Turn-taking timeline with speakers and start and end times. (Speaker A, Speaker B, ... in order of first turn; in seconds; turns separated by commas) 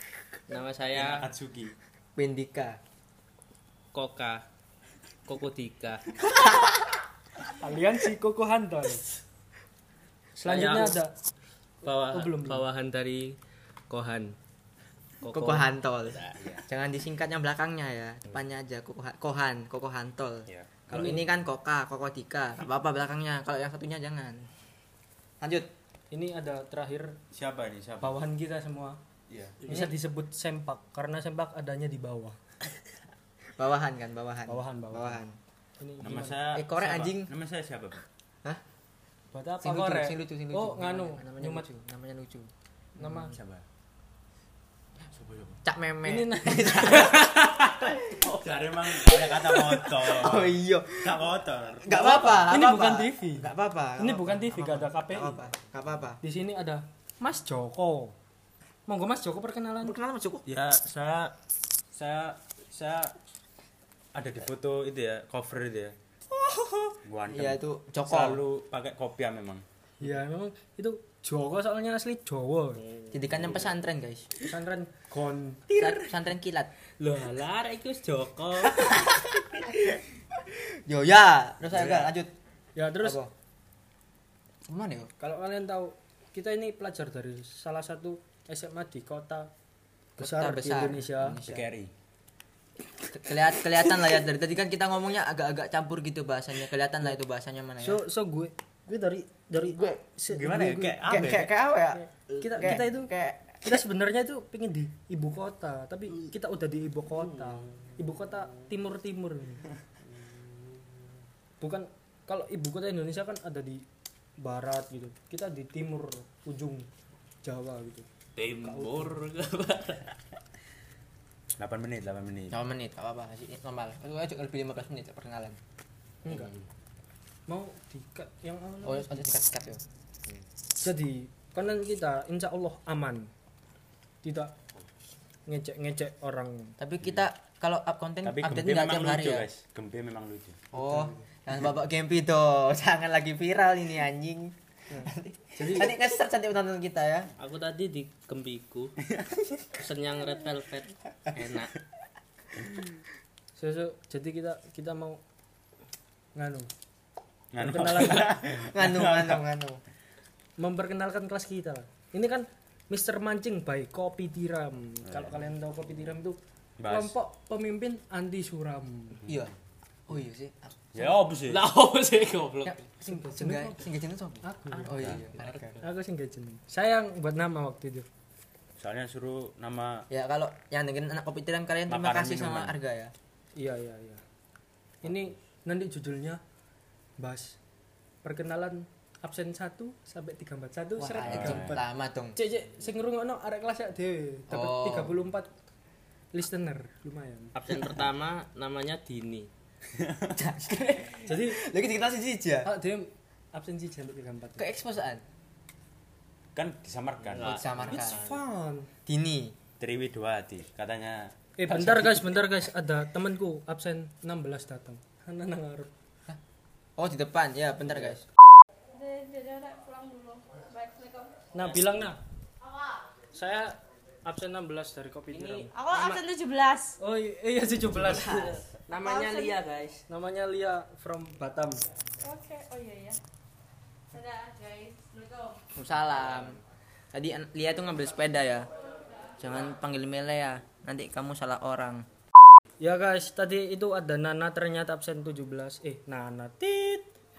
Speaker A: 0.5-1.3, Speaker B: 0.9-1.7, Speaker C: 2.1-2.8, Speaker A: 3.9-4.4, Speaker A: 5.2-6.0, Speaker C: 6.3-6.9, Speaker D: 7.6-9.0, Speaker D: 10.3-11.1, Speaker A: 10.4-11.0, Speaker A: 11.8-13.3, Speaker D: 11.9-12.6, Speaker A: 13.9-14.3, Speaker A: 15.2-16.6, Speaker C: 15.3-24.5, Speaker B: 16.4-16.6, Speaker B: 20.5-21.2, Speaker D: 20.9-21.2, Speaker C: 25.4-25.7, Speaker D: 26.1-27.2, Speaker B: 27.3-28.2, Speaker D: 28.0-29.0, Speaker B: 29.3-29.6, Speaker D: 29.6-32.4, Speaker C: 29.7-29.9, Speaker C: 33.6-35.4, Speaker D: 34.5-35.2, Speaker D: 35.8-36.4, Speaker B: 36.0-38.0, Speaker C: 36.5-37.3, Speaker D: 39.3-41.6, Speaker C: 39.6-42.5, Speaker D: 43.0-43.3, Speaker B: 43.0-43.6, Speaker B: 45.0-45.6, Speaker C: 45.6-47.3, Speaker D: 46.0-47.1, Speaker B: 47.0-52.5, Speaker C: 48.9-51.2, Speaker C: 51.8-56.2, Speaker D: 52.4-55.4, Speaker D: 56.2-58.1, Speaker D: 58.9-60.0, Speaker C: 59.8-60.5, Speaker B: 60.5-61.3, Speaker B: 61.9-63.1, Speaker B: 64.1-66.0, Speaker C: 66.3-68.4, Speaker B: 67.0-69.6, Speaker D: 70.0-72.8, Speaker A: 72.8-73.6, Speaker C: 73.1-74.3, Speaker D: 74.5-75.6, Speaker A: 75.7-76.1, Speaker C: 75.7-76.7, Speaker A: 77.0-78.9, Speaker C: 78.8-79.7, Speaker C: 80.4-82.3, Speaker B: 81.7-82.1, Speaker D: 82.8-83.2, Speaker C: 83.0-83.3, Speaker C: 84.7-85.1, Speaker D: 85.2-89.5, Speaker D: 90.2-91.4, Speaker C: 90.2-91.7, Speaker B: 91.5-91.9, Speaker C: 93.1-98.0, Speaker D: 97.8-101.0, Speaker B: 100.3-101.5, Speaker C: 101.0-103.8, Speaker D: 102.4-109.7, Speaker A: 107.5-108.6, Speaker A: 110.1-110.6, Speaker D: 111.6-113.8, Speaker D: 114.4-116.9, Speaker D: 117.4-119.2, Speaker A: 118.4-120.1, Speaker B: 121.6-122.6, Speaker C: 122.5-125.6, Speaker D: 126.2-126.5, Speaker D: 127.5-129.2, Speaker C: 128.8-129.8, Speaker D: 130.8-133.3, Speaker D: 134.2-134.5, Speaker D: 135.5-136.8, Speaker C: 136.8-139.5, Speaker B: 137.0-137.2, Speaker B: 138.2-140.6, Speaker C: 140.7-147.3, Speaker D: 140.8-141.2, Speaker D: 144.9-145.9, Speaker A: 147.4-148.9, Speaker A: 149.7-151.7, Speaker D: 153.6-155.2, Speaker D: 156.3-156.7, Speaker B: 157.5-159.4, Speaker D: 157.6-158.4, Speaker C: 157.9-159.8, Speaker D: 160.6-169.2, Speaker B: 165.0-165.4, Speaker B: 166.8-167.1, Speaker B: 169.2-169.5, Speaker C: 169.2-169.5, Speaker C: 170.1-171.1, Speaker B: 170.9-171.6, Speaker A: 171.5-172.8, Speaker C: 172.6-175.8, Speaker D: 173.1-173.8, Speaker D: 174.4-175.2, Speaker B: 174.9-175.2, Speaker D: 175.7-178.1, Speaker B: 178.8-180.0, Speaker C: 180.1-183.1, Speaker B: 181.9-182.7, Speaker D: 183.6-184.2, Speaker D: 185.0-186.4, Speaker D: 187.2-187.6, Speaker D: 188.2-191.8, Speaker C: 191.0-192.4, Speaker B: 191.3-191.8, Speaker D: 192.3-195.5, Speaker C: 194.5-195.1, Speaker D: 196.3-197.5, Speaker A: 197.5-199.5, Speaker B: 199.9-200.3, Speaker C: 200.3-202.7, Speaker D: 201.3-201.6, Speaker D: 202.6-204.7, Speaker C: 204.6-205.2, Speaker B: 206.5-208.0, Speaker A: 207.2-208.4, Speaker C: 207.4-208.2, Speaker D: 207.9-208.9, Speaker C: 209.0-209.6, Speaker B: 209.8-211.3, Speaker D: 211.6-215.9, Speaker C: 211.7-212.4, Speaker C: 217.0-218.2, Speaker E: 218.9-221.4, Speaker D: 221.5-222.2, Speaker A: 221.6-222.0, Speaker E: 222.6-223.1, Speaker D: 223.3-226.2, Speaker A: 225.3-225.7, Speaker E: 225.7-227.0, Speaker D: 227.0-228.6, Speaker C: 227.8-228.6, Speaker A: 228.9-230.0, Speaker E: 228.9-229.6, Speaker D: 230.1-231.8, Speaker E: 232.2-233.2, Speaker E: 234.1-235.6, Speaker C: 235.7-236.6, Speaker C: 237.1-238.7, Speaker E: 239.0-239.3, Speaker C: 239.4-242.1, Speaker D: 242.8-247.1